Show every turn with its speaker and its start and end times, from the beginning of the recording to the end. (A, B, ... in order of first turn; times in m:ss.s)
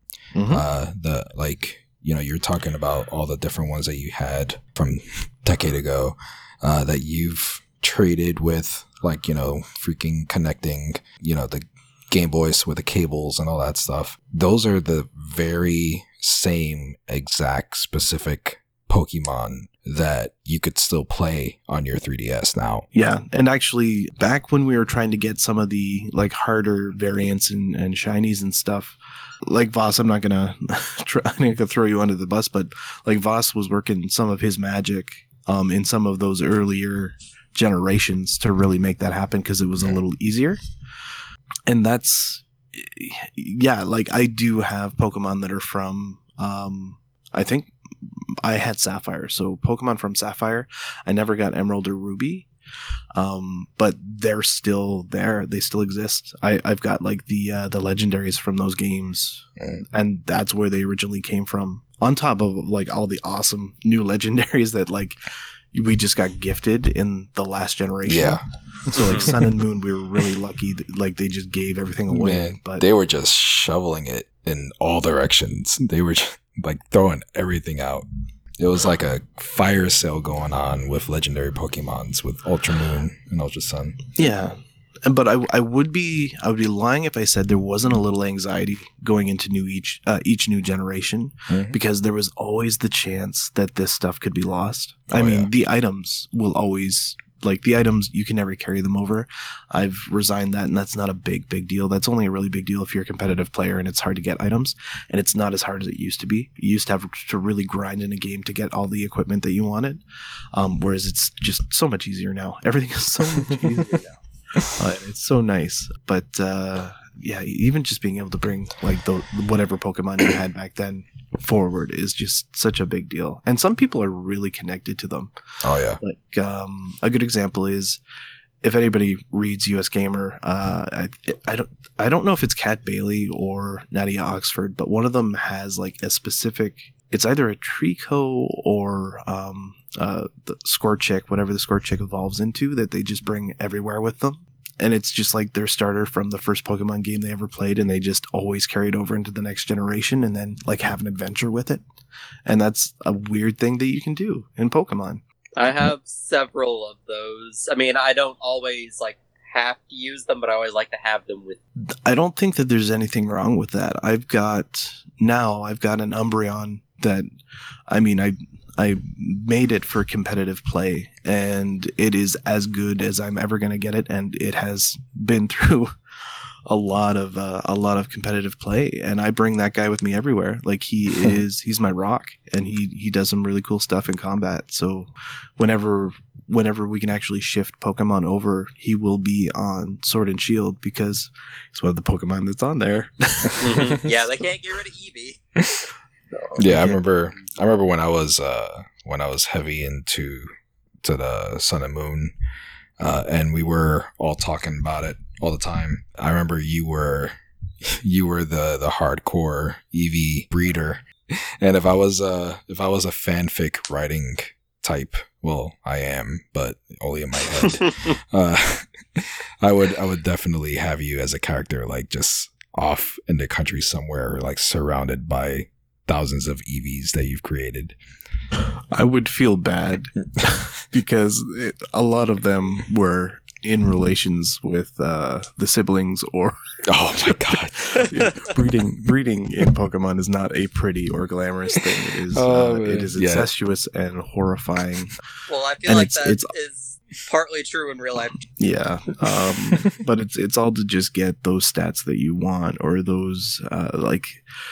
0:00.3-0:00.6 A
0:00.5-0:22.9 B
0:22.9-0:40.6 A
0:41.7-0:52.5 A
0:53.1-1:05.2 A
0:59.6-0:59.8 B
1:05.7-1:12.8 A
1:08.0-1:08.4 B
1:09.0-1:09.3 B
1:12.1-1:18.0 B
1:18.6-1:24.0 B
1:24.2-1:50.0 A
1:31.5-1:31.8 B
1:35.1-1:35.5 B
1:50.5-2:05.3 A
2:05.6-2:06.0 B
2:06.0-2:08.0 A
2:08.6-2:31.8 A
2:32.4-2:35.2 A
2:35.6-2:41.6 C
2:42.0-2:47.3 A
2:47.9-2:55.9 A
2:56.6-3:14.1 A
3:13.6-3:15.4 C
3:15.6-3:15.9 B
3:16.3-3:17.0 A
3:16.6-3:20.5 B
3:21.0-3:22.3 B
3:23.0-3:48.0 B
3:48.9-3:56.6 A
3:56.8-3:58.1 B
3:57.2-4:05.1 A
4:02.3-4:03.5 B
4:05.5-4:08.5 C
4:05.8-4:06.5 A
4:08.5-4:14.4 A